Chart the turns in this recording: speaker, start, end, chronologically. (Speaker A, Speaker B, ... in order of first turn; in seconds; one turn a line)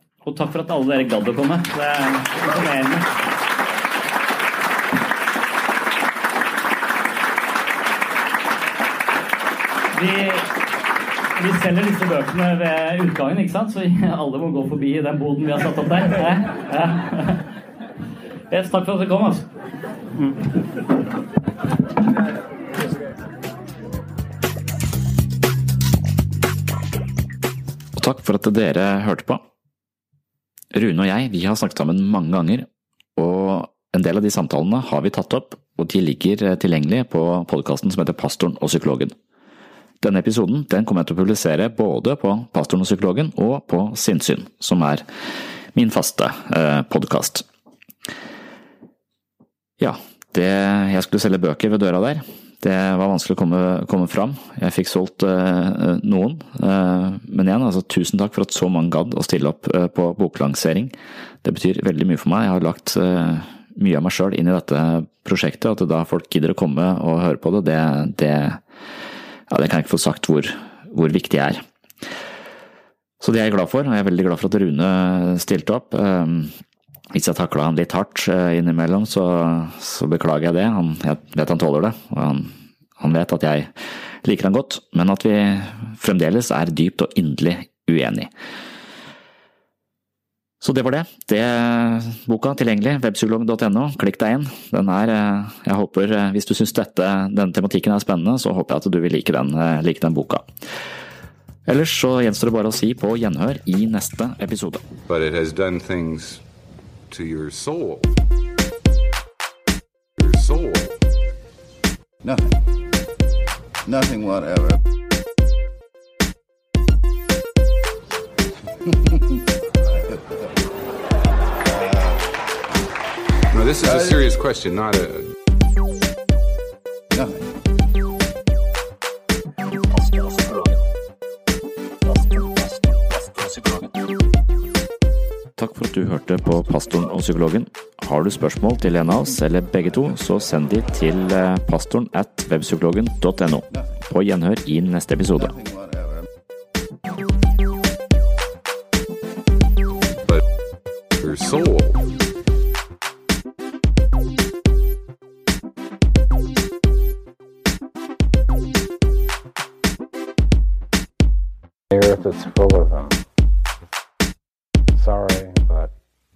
Speaker A: 0.2-3.2
Speaker A: 9.9-10.5
Speaker A: 11.3-17.4
Speaker A: 18.5-19.4
Speaker A: 20.1-20.6
Speaker B: 27.9-29.4
Speaker B: 30.7-39.1
Speaker B: 40.0-45.0
Speaker B: 45.7-47.5
Speaker B: 49.8-68.6
Speaker B: 69.5-71.6
Speaker B: 73.2-76.5
Speaker B: 77.1-83.7
Speaker B: 84.2-88.3
Speaker B: 90.6-100.5
Speaker B: 101.7-104.8
Speaker C: 105.1-106.4
Speaker C: 107.1-108.1
Speaker C: 110.2-110.9
Speaker D: 113.8-114.8
Speaker D: 118.9-119.4
Speaker D: 119.9-120.5
Speaker D: 121.6-122.3
Speaker C: 123.5-125.3
Speaker D: 123.8-124.2
Speaker D: 127.1-127.4
Speaker A: 129.9-130.8
Speaker A: 132.1-133.9
Speaker B: 135.6-145.5
Speaker D: 145.4-146.2
Speaker C: 151.2-152.1
Speaker E: 161.9-163.2
Speaker E: 164.9-165.9